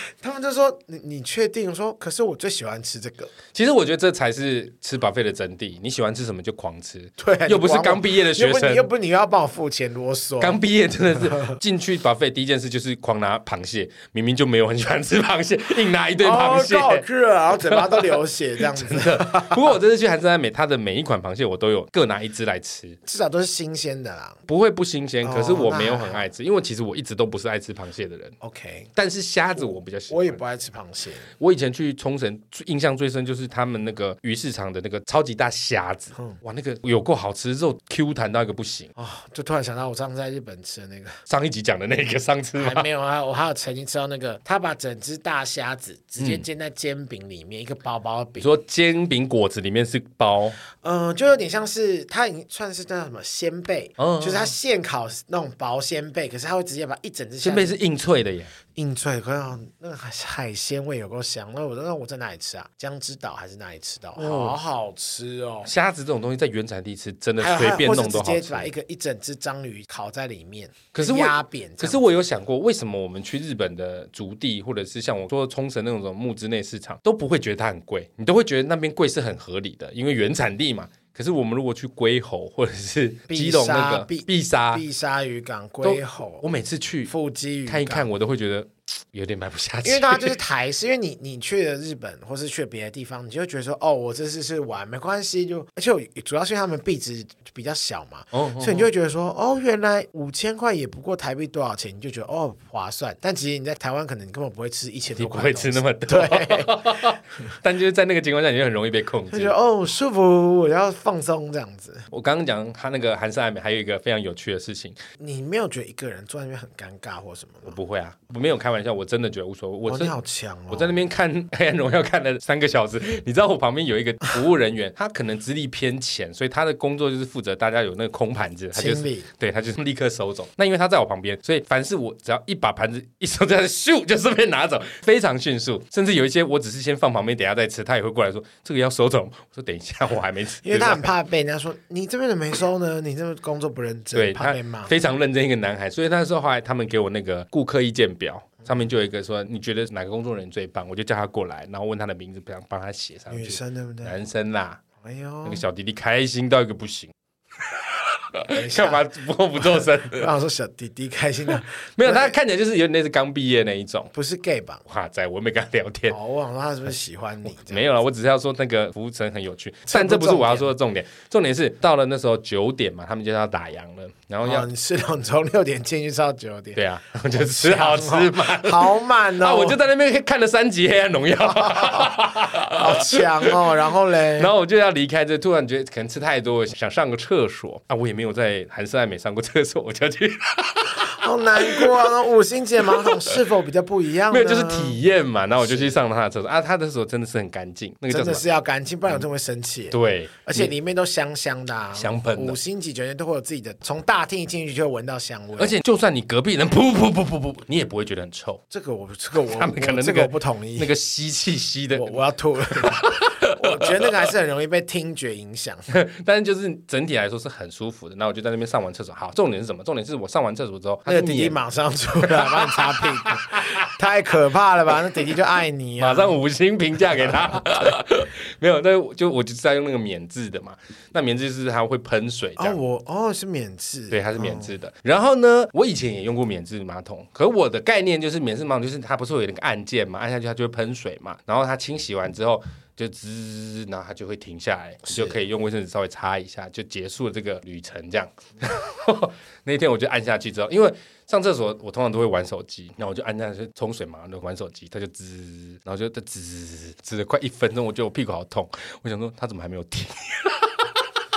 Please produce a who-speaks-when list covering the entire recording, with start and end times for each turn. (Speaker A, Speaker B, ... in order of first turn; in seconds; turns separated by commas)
Speaker A: 0.2-3.3, Speaker B: 3.5-8.9, Speaker A: 7.2-10.6, Speaker B: 10.4-23.0, Speaker A: 11.2-11.6, Speaker A: 16.2-19.8, Speaker A: 23.1-24.4, Speaker B: 24.5-28.4, Speaker A: 25.2-26.3, Speaker A: 28.4-28.9, Speaker B: 29.0-30.4, Speaker A: 30.1-31.3, Speaker B: 31.4-38.9, Speaker A: 39.0-41.2, Speaker B: 41.3-42.9, Speaker A: 42.6-48.5, Speaker B: 46.2-46.5, Speaker B: 48.4-50.6, Speaker A: 50.8-57.8, Speaker B: 54.0-54.5, Speaker B: 57.4-58.5, Speaker A: 58.8-65.7, Speaker B: 64.2-64.6, Speaker B: 65.7-68.7, Speaker A: 67.4-72.0, Speaker B: 70.9-84.8, Speaker A: 83.3-86.5, Speaker B: 85.8-87.1, Speaker A: 87.1-88.1, Speaker B: 87.7-90.4, Speaker A: 89.8-107.2, Speaker B: 98.3-98.9, Speaker B: 105.2-109.5, Speaker A: 109.3-112.1, Speaker B: 112.1-115.0, Speaker A: 115.2-117.8, Speaker B: 117.7-120.2, Speaker A: 119.9-121.0, Speaker B: 120.7-141.1, Speaker A: 128.7-129.3, Speaker A: 140.6-144.9, Speaker B: 144.1-154.8, Speaker A: 153.3-154.2, Speaker A: 155.0-155.6, Speaker B: 155.4-160.3, Speaker A: 158.5-162.3, Speaker B: 162.0-164.1, Speaker A: 164.1-164.8, Speaker B: 164.9-166.2, Speaker A: 166.1-167.9, Speaker B: 167.5-174.7, Speaker A: 169.9-170.7, Speaker A: 174.4-179.8, Speaker B: 176.8-192.1, Speaker A: 181.4-184.5, Speaker A: 190.9-195.0, Speaker B: 192.8-193.4, Speaker B: 194.3-198.4, Speaker A: 195.6-196.0, Speaker A: 198.1-205.8, Speaker B: 199.9-200.7, Speaker B: 201.9-202.6, Speaker B: 205.6-208.6, Speaker A: 208.7-210.9, Speaker B: 209.4-212.2, Speaker A: 211.9-215.9, Speaker B: 212.8-214.2, Speaker B: 215.9-221.6, Speaker A: 221.1-226.4, Speaker B: 222.2-223.9, Speaker B: 226.0-232.8, Speaker A: 227.2-227.6, Speaker A: 232.6-234.8, Speaker B: 234.1-261.1, Speaker A: 245.1-245.4